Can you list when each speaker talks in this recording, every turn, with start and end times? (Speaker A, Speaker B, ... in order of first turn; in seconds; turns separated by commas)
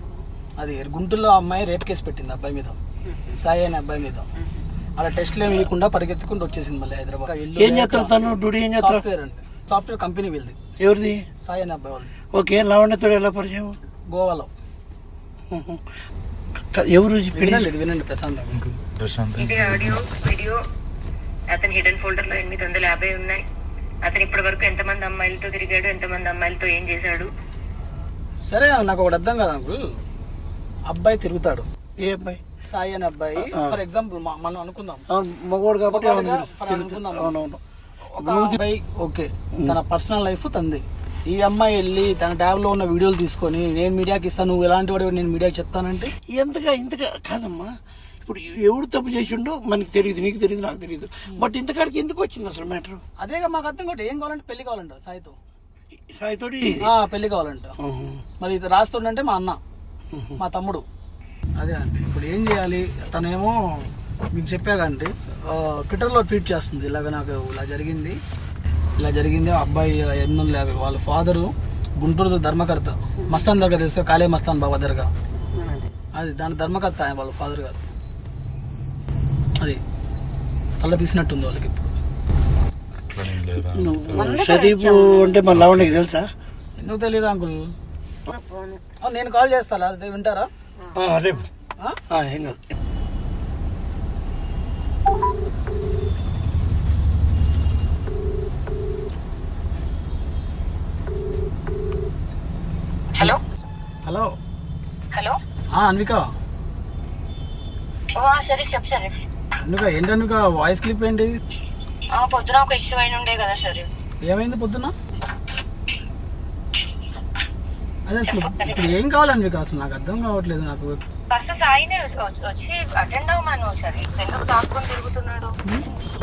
Speaker A: 0.6-2.8, Speaker B: 3.1-3.4, Speaker A: 3.3-4.3, Speaker A: 5.0-8.2, Speaker C: 7.5-9.0, Speaker A: 8.8-10.6, Speaker C: 10.8-11.2, Speaker A: 11.4-12.1, Speaker C: 12.3-13.8, Speaker A: 14.1-14.5, Speaker C: 15.5-15.8, Speaker C: 16.7-17.7, Speaker A: 17.3-18.5, Speaker D: 18.5-20.1, Speaker E: 19.4-20.6, Speaker E: 21.5-23.4, Speaker E: 24.0-27.3, Speaker A: 28.4-30.0, Speaker A: 30.9-31.7, Speaker C: 32.0-32.4, Speaker A: 32.6-35.0, Speaker C: 33.4-33.8, Speaker C: 35.1-37.6, Speaker A: 35.9-37.3, Speaker A: 38.1-46.1, Speaker C: 38.2-38.6, Speaker C: 39.5-39.8, Speaker C: 46.1-53.0, Speaker A: 53.2-55.4, Speaker C: 56.1-56.9, Speaker A: 56.8-57.7, Speaker C: 57.8-58.2, Speaker A: 58.4-59.6, Speaker C: 60.1-60.4, Speaker A: 60.4-60.8, Speaker A: 61.5-68.2, Speaker A: 69.0-75.1, Speaker B: 73.2-73.5, Speaker B: 75.5-75.9, Speaker A: 76.1-77.8, Speaker A: 80.8-81.9, Speaker D: 83.1-84.4, Speaker C: 83.7-86.3, Speaker B: 84.2-85.4, Speaker A: 84.3-85.2, Speaker D: 85.5-86.0, Speaker A: 86.8-87.7, Speaker B: 88.3-88.8, Speaker A: 89.0-90.5, Speaker C: 90.9-91.5, Speaker C: 92.1-92.6, Speaker A: 104.0-104.3, Speaker A: 105.7-106.3, Speaker E: 108.2-109.2, Speaker A: 109.6-111.4, Speaker E: 112.1-113.9, Speaker A: 114.2-114.9, Speaker A: 118.0-121.0, Speaker E: 118.3-119.0, Speaker E: 121.3-125.5